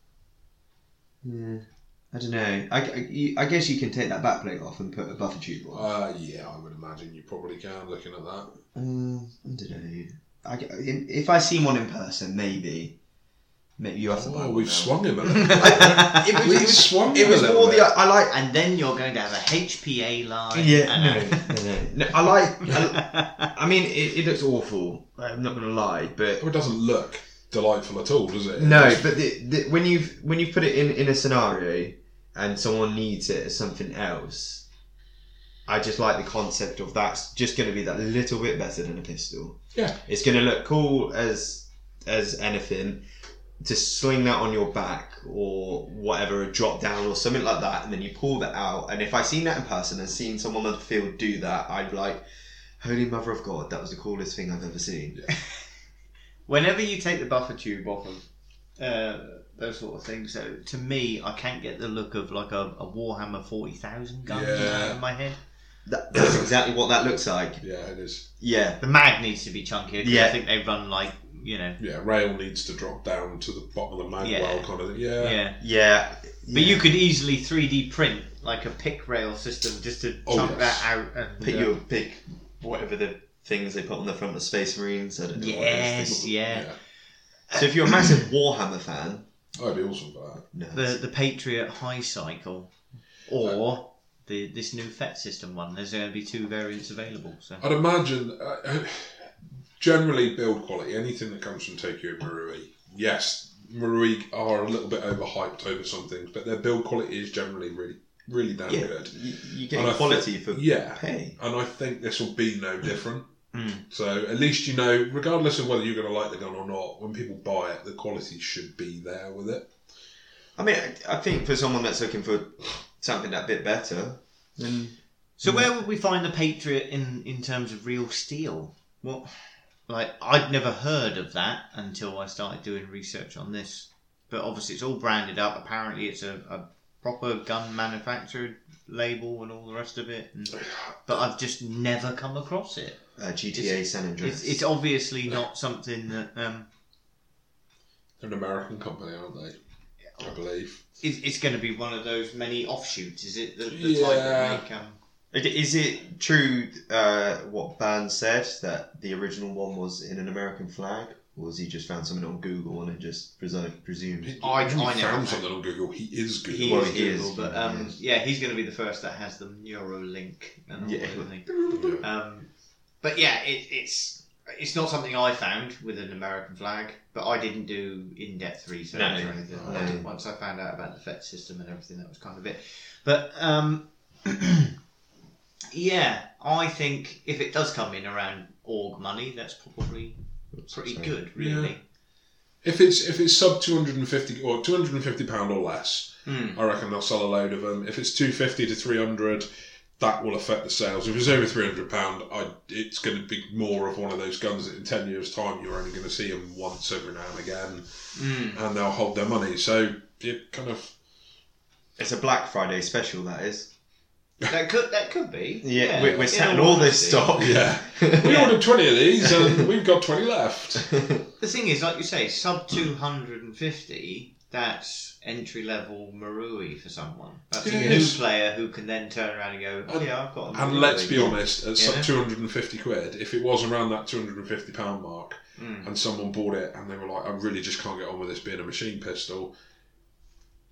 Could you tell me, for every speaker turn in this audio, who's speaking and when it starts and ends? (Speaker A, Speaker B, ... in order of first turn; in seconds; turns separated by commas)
Speaker A: 1.2-5.9, Speaker B: 5.7-8.5, Speaker A: 8.7-12.9, Speaker A: 13.8-18.3, Speaker B: 14.1-17.9, Speaker C: 15.3-16.7, Speaker C: 18.3-21.5, Speaker A: 20.5-26.4, Speaker C: 22.6-23.5, Speaker B: 26.4-29.2, Speaker A: 28.6-34.6, Speaker A: 35.6-43.0, Speaker A: 43.6-52.2, Speaker A: 52.8-55.2, Speaker C: 56.5-58.2, Speaker C: 58.8-65.4, Speaker B: 64.2-65.0, Speaker A: 65.8-67.6, Speaker B: 66.2-66.5, Speaker B: 67.6-68.2, Speaker A: 68.4-68.8, Speaker C: 68.8-71.8, Speaker A: 70.0-70.4, Speaker B: 71.8-75.4, Speaker C: 74.2-75.6, Speaker A: 75.6-77.0, Speaker C: 76.5-81.8, Speaker B: 80.2-80.9, Speaker A: 81.4-86.3, Speaker C: 85.3-86.7, Speaker B: 86.3-86.8, Speaker C: 87.5-88.1, Speaker A: 87.5-89.3, Speaker B: 89.6-90.4, Speaker A: 90.5-91.0, Speaker C: 90.7-92.7, Speaker C: 93.3-97.6, Speaker B: 97.6-99.2, Speaker B: 99.8-109.2, Speaker A: 108.7-111.4, Speaker B: 109.7-113.3, Speaker C: 113.5-113.8, Speaker B: 113.9-119.7, Speaker A: 120.6-125.6, Speaker C: 125.4-129.3, Speaker C: 129.9-143.0, Speaker A: 143.2-144.6, Speaker C: 143.5-146.7, Speaker B: 148.2-149.6, Speaker B: 150.2-150.8, Speaker C: 151.0-155.0, Speaker B: 153.7-154.6, Speaker A: 155.3-164.3, Speaker B: 164.2-167.1, Speaker C: 164.4-165.5, Speaker C: 166.5-172.5, Speaker A: 166.6-167.9, Speaker A: 170.8-172.0, Speaker B: 171.7-172.1, Speaker C: 173.0-184.7, Speaker A: 178.9-180.1, Speaker B: 179.5-179.9, Speaker C: 185.7-190.2, Speaker A: 190.5-191.1, Speaker C: 190.7-191.8, Speaker B: 191.3-191.7, Speaker B: 192.6-199.5, Speaker C: 196.2-196.6, Speaker B: 200.0-210.9, Speaker C: 208.1-208.6, Speaker A: 212.0-213.7, Speaker C: 214.5-217.4, Speaker A: 215.6-218.5, Speaker B: 217.3-220.9, Speaker C: 218.2-218.6, Speaker A: 219.2-219.7, Speaker A: 220.8-221.2, Speaker C: 221.4-232.1, Speaker B: 227.6-228.2, Speaker A: 227.8-228.0, Speaker B: 229.9-239.5, Speaker A: 231.0-231.4, Speaker C: 235.6-235.9